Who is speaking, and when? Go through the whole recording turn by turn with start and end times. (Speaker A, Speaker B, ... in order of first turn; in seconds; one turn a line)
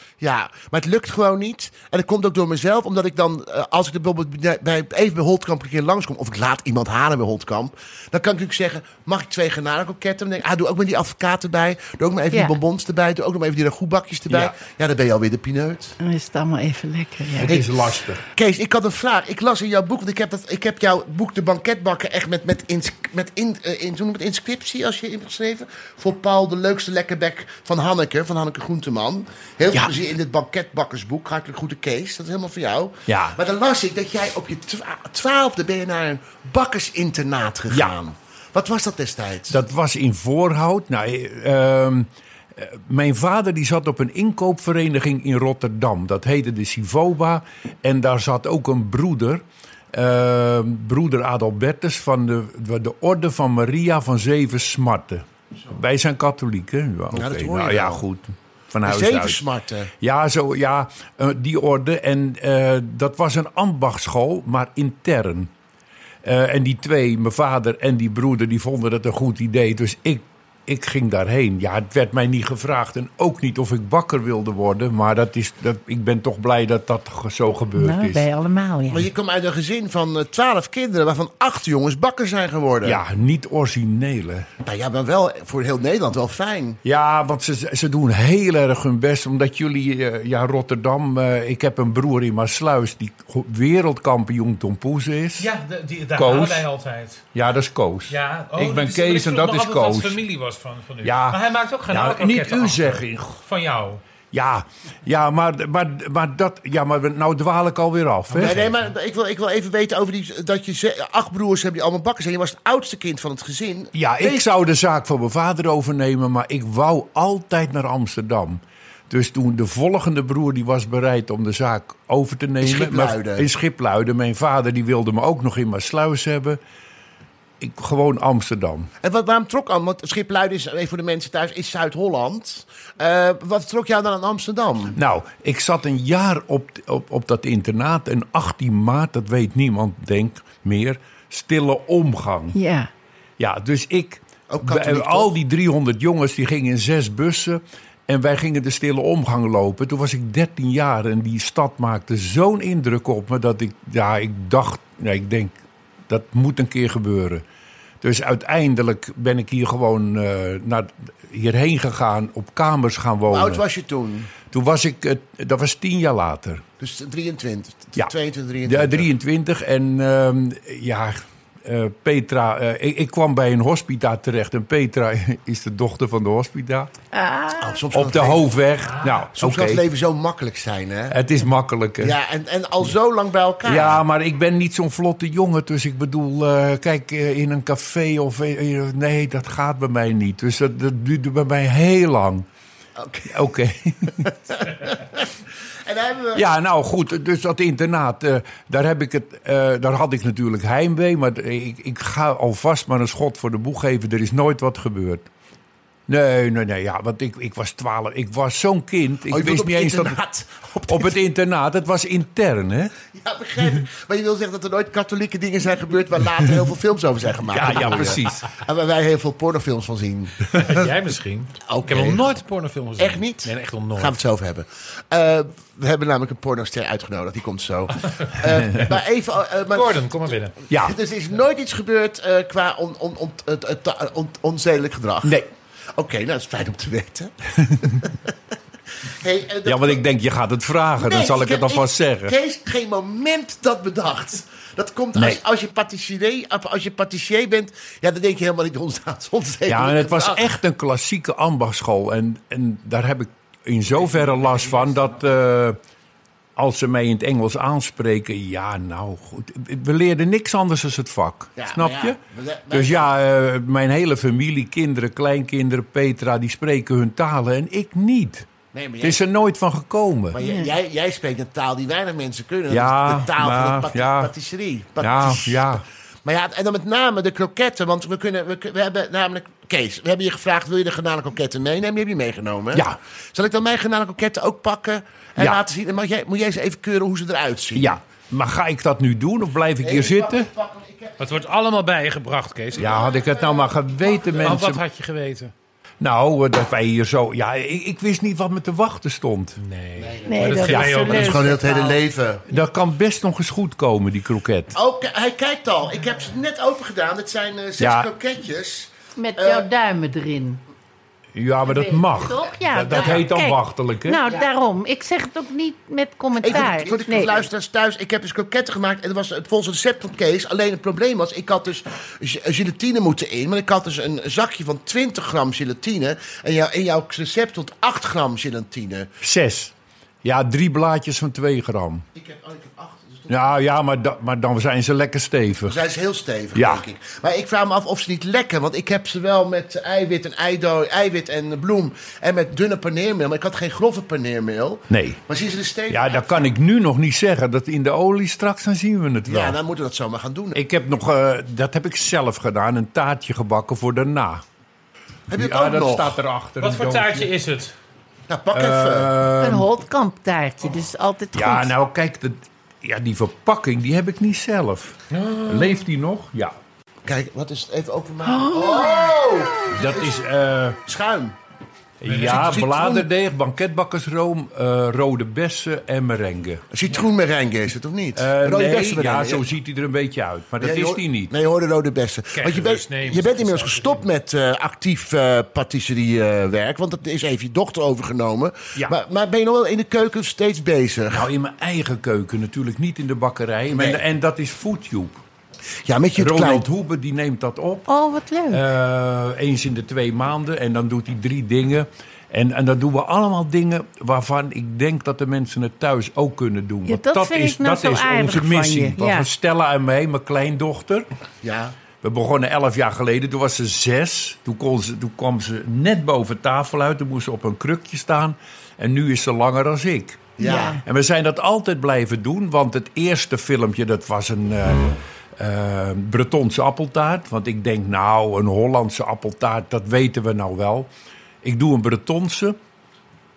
Speaker A: 0.2-15.9
Speaker B: 16.0-17.6
Speaker C: 17.4-18.2
Speaker A: 17.4-39.6
Speaker C: 33.1-33.4
Speaker C: 39.5-59.4
Speaker A: 57.1-58.0
Speaker A: 58.8-59.9
Speaker C: 60.0-65.5
Speaker C: 66.2-78.2
Speaker B: 77.8-79.1
Speaker A: 78.9-83.0
Speaker C: 82.8-84.5
Speaker A: 84.6-86.8
Speaker C: 86.8-95.5
Speaker D: 95.4-97.2
Speaker C: 96.2-96.6
Speaker C: 97.3-100.2
Speaker D: 98.1-104.0
Speaker C: 101.0-103.3
Speaker C: 104.3-108.6
Speaker D: 108.3-108.8
Speaker A: 108.4-114.4
Speaker C: 114.0-126.6
Speaker A: 122.6-123.5
Speaker C: 127.6-128.9
Speaker A: 129.0-134.9
Speaker C: 134.9-142.5
Speaker B: 142.5-142.9
Speaker C: 143.4-155.6
Speaker A: 144.5-145.3
Speaker C: 156.1-157.4
Speaker C: 158.0-163.6
Speaker A: 163.3-164.3
Speaker C: 164.4-166.6
Speaker A: 166.8-169.1
Speaker C: 168.6-176.9
Speaker B: 177.1-177.8
Speaker A: 177.6-178.5
Speaker C: 177.9-179.8
Speaker A: 179.3-181.2
Speaker C: 181.1-182.1
Speaker A: 182.0-184.0
Speaker C: 183.6-192.4
Speaker A: 193.0-193.3
Speaker C: 193.3-194.3
Speaker A: 194.2-195.2
Speaker A: 195.8-196.5
Speaker C: 196.3-205.3
Speaker C: 206.1-210.2
Speaker A: 209.3-211.1
Speaker C: 210.9-212.9
Speaker A: 213.2-220.9
Speaker C: 217.5-218.4
Speaker D: 220.6-224.2
Speaker A: 221.7-222.2
Speaker A: 223.0-235.4
Speaker C: 228.5-228.9
Speaker D: 229.7-230.5
Speaker C: 230.7-230.9
Speaker A: 235.9-237.3
Speaker C: 237.6-237.9
Speaker A: 238.0-238.3
Speaker A: 239.0-240.0
Speaker C: 239.7-242.3
Speaker A: 241.0-250.4
Speaker C: 249.7-255.8
Speaker D: 254.2-254.9
Speaker C: 256.6-262.2
Speaker A: 261.6-263.1
Speaker C: 262.7-268.4
Speaker A: 268.7-269.2
Speaker C: 269.0-270.4
Speaker A: 270.3-288.0
Speaker B: 270.4-270.7
Speaker C: 272.7-274.3
Speaker C: 275.0-275.8
Speaker C: 287.7-290.5
Speaker A: 289.8-291.4
Speaker D: 291.2-293.0
Speaker A: 292.8-294.6
Speaker C: 292.8-294.8
Speaker D: 294.4-295.5
Speaker C: 296.0-299.6
Speaker D: 299.6-301.5
Speaker A: 300.0-302.4
Speaker B: 300.2-301.9
Speaker C: 300.7-301.1
Speaker C: 302.5-304.7
Speaker A: 304.7-309.6
Speaker C: 307.8-308.1
Speaker B: 309.2-310.6
Speaker C: 311.3-314.2
Speaker B: 311.6-317.4
Speaker A: 312.9-313.2
Speaker A: 316.4-329.1
Speaker C: 329.2-332.0
Speaker A: 332.1-333.6
Speaker C: 333.3-335.8
Speaker A: 335.6-346.4
Speaker C: 336.5-336.8
Speaker C: 344.9-345.2
Speaker C: 345.9-349.6
Speaker A: 349.2-350.6
Speaker C: 350.5-354.4
Speaker A: 355.3-356.2
Speaker C: 355.4-357.3
Speaker D: 356.6-357.7
Speaker A: 358.3-359.1
Speaker C: 358.5-359.7
Speaker B: 359.4-361.7
Speaker C: 361.3-366.6
Speaker D: 365.1-365.8
Speaker A: 367.1-370.2
Speaker B: 368.2-369.3
Speaker C: 369.7-370.8
Speaker A: 370.9-371.3
Speaker C: 372.0-376.6
Speaker D: 372.1-372.4
Speaker A: 372.1-373.1
Speaker A: 376.7-379.4
Speaker C: 378.1-381.3
Speaker A: 380.6-391.3
Speaker D: 382.3-384.1
Speaker C: 391.1-395.2
Speaker A: 393.7-394.0
Speaker A: 395.9-396.6
Speaker C: 396.2-397.9
Speaker B: 397.9-398.6
Speaker C: 398.5-411.1
Speaker B: 406.9-409.3
Speaker A: 411.4-411.7
Speaker C: 412.0-430.9
Speaker A: 420.4-420.8
Speaker B: 420.4-420.8
Speaker C: 431.4-432.6